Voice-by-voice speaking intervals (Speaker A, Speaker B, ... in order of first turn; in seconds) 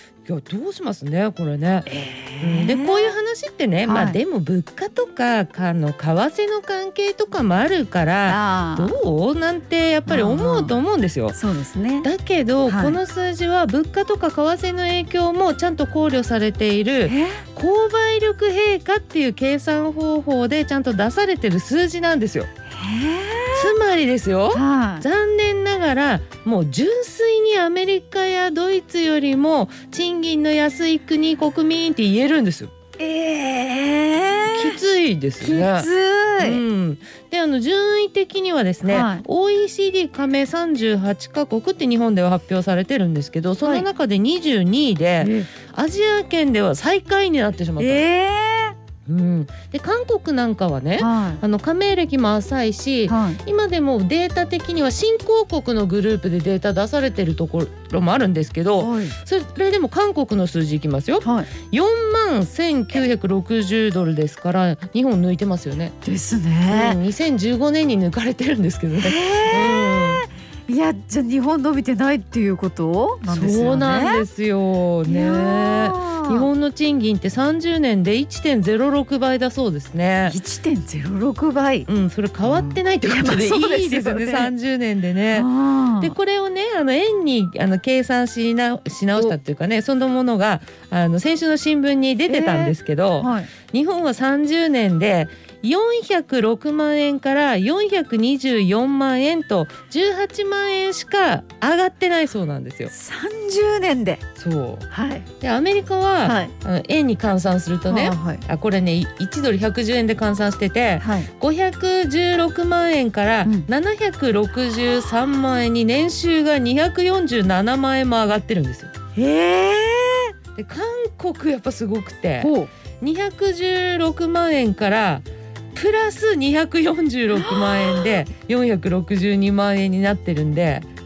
Speaker A: 0.2-1.9, 2.4-11.4, 12.0-22.5, 23.5-32.7, 34.5-48.1, 49.0-65.9, 66.7-70.2, 73.3-80.4, 81.9-85.5, 86.0-102.9, 104.4-104.8, 105.4-118.9, 120.5-130.9
Speaker B: 1.9-3.1, 3.8-4.2, 8.2-8.9, 10.1-10.8, 11.3-12.1, 12.7-13.0, 17.0-17.4, 22.7-23.7, 24.5-25.1, 33.0-34.8, 35.4-36.6, 38.8-39.2, 45.2-45.5, 47.8-48.8, 51.0-51.4, 53.1-53.4, 58.8-59.1, 61.2-61.5, 66.0-67.0, 68.9-74.2, 75.0-76.5, 80.2-81.9, 82.4-84.5, 85.3-86.1, 92.3-93.5, 102.9-104.2, 104.9-105.2, 106.2-106.5, 107.9-108.4, 111.0-111.3, 119.1-120.3, 122.4-122.7, 127.3-128.2